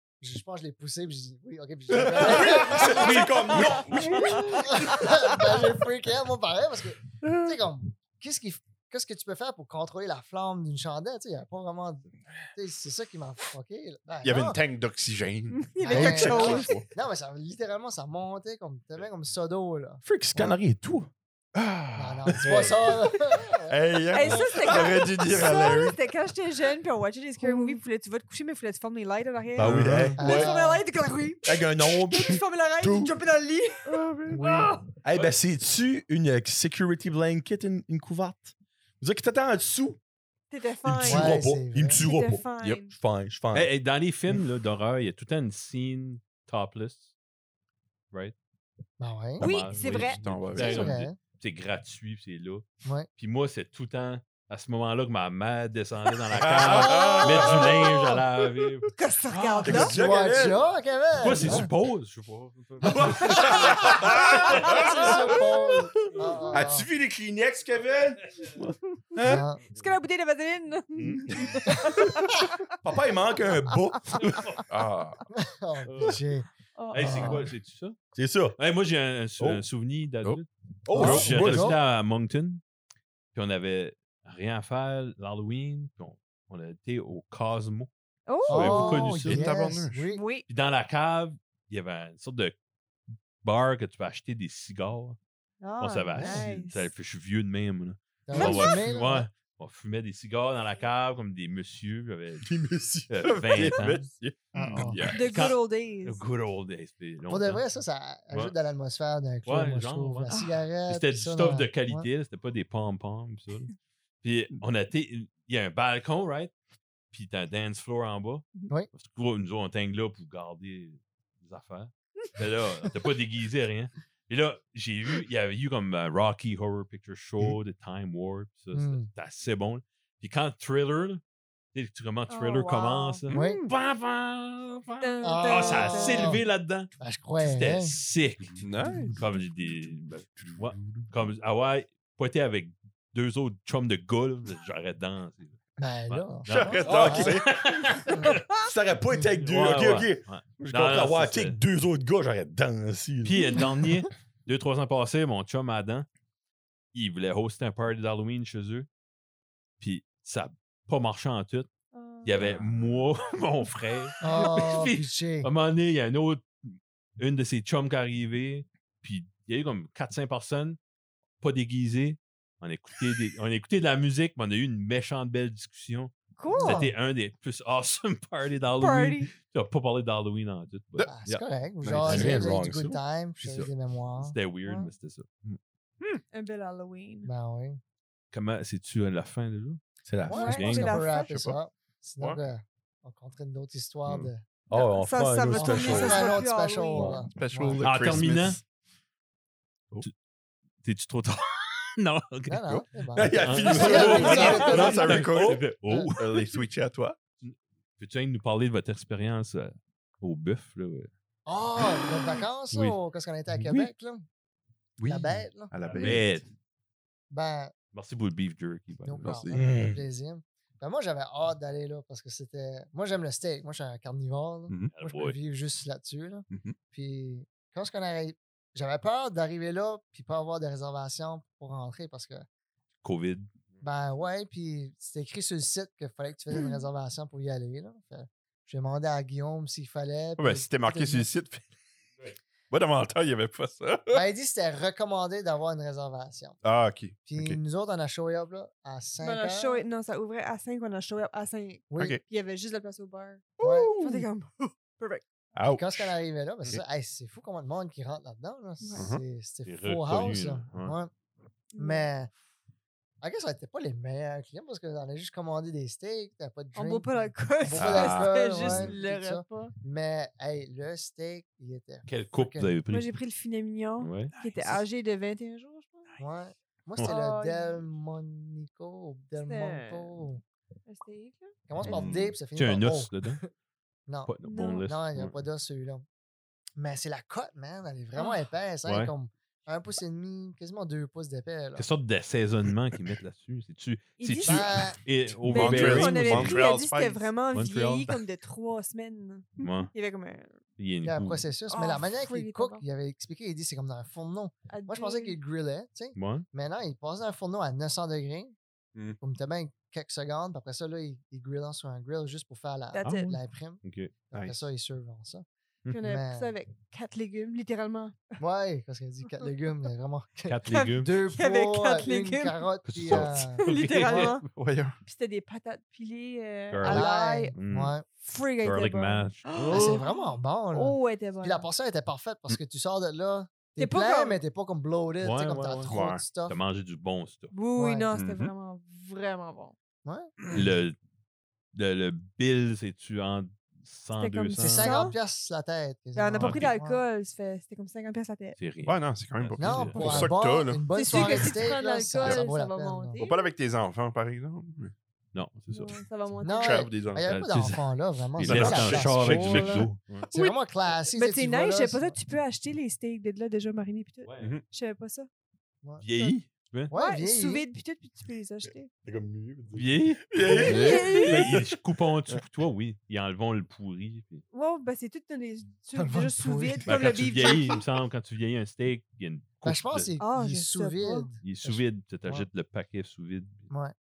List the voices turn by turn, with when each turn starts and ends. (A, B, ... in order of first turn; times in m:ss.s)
0:00.2-0:03.2 A
0:01.9-0:04.4 B
0:02.3-0:05.6 C
0:02.9-0:03.7 D
0:03.0-0:03.2 E
0:03.8-0:04.6 E
0:04.3-0:14.6 A
0:07.2-0:07.6 E
0:14.2-0:16.9 E
0:15.5-0:16.8 C
0:15.8-0:20.6 A
0:20.0-0:21.1 B
0:21.6-0:23.1 E
0:22.0-0:24.5 A
0:22.3-0:22.7 B
0:23.7-0:26.0 E
0:24.1-0:34.9 C
0:24.6-0:24.9 B
0:29.6-0:30.5 B
0:29.6-0:30.5 E
0:30.2-0:30.8 A
0:31.4-0:33.1 B
0:33.9-0:34.6 E
0:34.3-0:34.7 A
0:35.0-0:40.0 B
0:40.5-0:41.4 C
0:40.8-0:43.7 B
0:41.0-0:42.0 A
0:42.0-0:42.9 C
0:43.5-0:47.1 D
0:49.0-0:49.5 A
0:49.4-0:58.9 D
0:49.4-0:50.2 C
0:49.9-0:51.0 E
0:50.6-0:51.2 A
0:56.3-0:57.7 B
0:56.4-0:57.7 E
0:56.7-0:58.1 C
0:58.9-1:00.2 C
0:59.4-1:00.6 B
0:59.7-1:01.7 A
1:01.2-1:03.6 D
1:02.8-1:05.1 B
1:03.2-1:05.1 E
1:03.4-1:03.9 C
1:04.0-1:06.9 A
1:04.8-1:05.1 C
1:06.1-1:06.6 D
1:06.5-1:09.4 B
1:09.1-1:12.8 C
1:09.2-1:09.6 A
1:11.0-1:11.4 D
1:11.6-1:12.4 A
1:12.8-1:14.5 B
1:13.7-1:14.6 C
1:14.3-1:14.6 D
1:14.7-1:15.2 E
1:15.3-1:17.5 A
1:15.9-1:16.2 D
1:16.8-1:17.5 C
1:16.9-1:18.0 D
1:18.1-1:18.6 B
1:18.6-1:22.6 D
1:20.8-1:21.8 B
1:20.9-1:21.8 A
1:23.3-1:27.9 D
1:28.3-1:29.3 C
1:28.5-1:29.6 D
1:28.5-1:30.2 A
1:29.2-1:30.0 E
1:30.1-1:30.5 C
1:30.5-1:32.6 D
1:33.4-1:35.2 D
1:35.6-1:36.9 C
1:35.8-1:42.5 D
1:36.1-1:36.4 A
1:38.3-1:39.3 A
1:38.3-1:39.0 C
1:42.4-1:43.3 B
1:43.1-1:44.1 D
1:43.2-1:45.6 E
1:43.9-1:45.0 A
1:45.1-1:46.2 C
1:45.2-1:47.6 D
1:47.3-1:52.1 A
1:49.4-1:50.3 D
1:50.3-1:50.6 C
1:50.8-1:56.5 D
1:57.1-2:11.2 D
2:08.7-2:09.1 A
2:11.7-2:28.4 D
2:12.3-2:13.7 C
2:13.3-2:13.6 A
2:15.0-2:16.4 C
2:15.2-2:16.4 A
2:17.0-2:18.0 A
2:18.6-2:19.2 E
2:20.4-2:21.1 E
2:25.8-2:27.4 A
2:26.5-2:28.1 E
2:26.9-2:27.4 B
2:28.5-2:33.9 B
2:29.3-2:31.6 D
2:33.2-2:36.1 D
2:36.9-2:38.9 D
2:39.8-2:41.7 D
2:41.9-2:42.6 C
2:42.2-2:50.8 D
2:44.2-2:45.5 A
2:51.4-3:01.4 D
2:56.4-2:56.8 C
2:56.5-2:56.9 A
2:58.8-2:59.3 C
3:01.0-3:04.9 A
3:01.8-3:02.4 E
3:02.0-3:03.0 B
3:02.1-3:02.5 D
3:03.4-3:05.6 D
3:06.1-3:07.3 C
3:07.2-3:07.8 A
3:08.3-3:09.8 D
3:10.0-3:10.5 B
3:10.3-3:14.4 A
3:10.3-3:11.4 C
3:10.4-3:11.0 D
3:11.3-3:11.6 E
3:14.0-3:14.3 E
3:14.7-3:16.4 B
3:14.7-3:17.2 C
3:15.5-3:17.8 A
3:17.0-3:18.6 E
3:17.8-3:18.6 D
3:20.8-3:26.6 D
3:22.4-3:25.3 A
3:23.2-3:25.2 B
3:23.6-3:25.6 E
3:26.2-3:27.2 E
3:27.4-3:31.1 D
3:31.4-3:34.2 A
3:32.7-3:33.0 D
3:33.6-3:33.9 D
3:35.0-3:36.4 E
3:35.0-3:36.2 A
3:35.9-3:36.4 D
3:37.3-3:37.7 A
3:37.9-3:39.3 D
3:39.0-3:52.4 A
3:39.2-3:39.7 E
3:39.5-3:40.0 B
3:44.9-3:45.4 D
3:46.5-3:46.8 E
3:53.0-3:53.8 D
3:53.8-4:01.3 A
3:56.5-3:56.8 C
4:00.4-4:01.7 E
4:02.7-4:04.2 E
4:04.1-4:06.6 A
4:06.6-4:07.6 E
4:07.3-4:09.8 A
4:09.2-4:15.2 C
4:11.9-4:12.2 A
4:13.6-4:13.9 A
4:13.6-4:14.3 E
4:15.6-4:16.1 E
4:15.7-4:21.1 A
4:18.8-4:19.1 C
4:19.0-4:19.2 E
4:19.6-4:20.9 D
4:21.7-4:22.1 C
4:21.8-4:22.3 A
4:23.2-4:32.8 A
4:26.7-4:29.7 C
4:27.8-4:28.9 E
4:32.0-4:33.1 D
4:32.9-4:36.1 C
4:34.0-4:34.3 D
4:34.3-4:34.8 E
4:36.2-4:40.4 A
4:37.0-4:37.9 C
4:39.4-4:40.3 C
4:40.9-4:42.1 C
4:41.7-4:43.5 A
4:41.9-4:42.4 E
4:42.5-4:43.4 D
4:44.1-4:44.3 A
4:44.3-4:45.4 D
4:44.4-4:44.8 C
4:44.8-4:46.0 A
4:46.8-4:51.8 A
4:48.1-4:48.4 C
4:48.8-4:49.1 D
4:51.8-4:56.7 D
4:54.2-4:54.9 C
4:54.4-4:55.0 A
4:55.4-5:00.6 C
4:55.5-4:57.3 E
4:57.5-4:58.2 D
4:59.6-4:59.9 D
5:00.8-5:01.4 D
5:01.0-5:08.6 A
5:01.7-5:02.8 C
5:04.7-5:05.4 C
5:06.1-5:06.5 D
5:09.2-5:15.4 A
5:12.9-5:13.4 C
5:13.8-5:14.1 D
5:14.3-5:14.6 E
5:15.9-5:18.4 C
5:16.0-5:16.5 A
5:18.4-5:23.6 A
5:20.5-5:21.2 D
5:20.7-5:24.5 C
5:22.8-5:24.4 D
5:24.1-5:25.0 E
5:25.0-5:31.7 C
5:26.7-5:27.9 D
5:26.8-5:28.0 A
5:28.6-5:29.8 D
5:29.7-5:36.6 A
5:33.8-5:34.4 C
5:35.2-5:37.5 D
5:35.9-5:36.2 E
5:37.5-5:39.7 C
5:37.8-5:38.1 A
5:38.1-5:38.5 E
5:40.0-5:40.3 A
5:40.4-5:40.7 E
5:40.5-5:41.0 D
5:41.7-5:45.0 D
5:44.1-5:45.2 C
5:44.6-5:47.0 A
5:46.1-5:48.6 C
5:46.4-5:46.7 D
5:48.6-5:50.3 D
5:48.8-5:51.6 E
5:49.6-5:53.3 A
5:50.9-5:53.5 C
5:53.2-5:54.9 E
5:55.3-5:56.0 D
5:55.7-5:56.9 C
5:56.4-6:02.2 A
5:56.5-5:57.2 E
5:57.2-6:00.3 D
5:58.4-5:59.9 E
6:01.1-6:05.3 C
6:04.2-6:04.6 D
6:06.0-6:06.9 D
6:06.1-6:06.4 C
6:06.9-6:07.6 A
6:06.9-6:08.9 C
6:09.0-6:10.8 B
6:09.8-6:14.4 D
6:10.4-6:11.6 E
6:10.6-6:11.5 C
6:14.5-6:17.8 C
6:15.9-6:17.0 A
6:16.8-6:20.1 D
6:19.6-6:22.5 A
6:20.2-6:21.4 C
6:21.4-6:23.7 D
6:23.7-6:23.9 A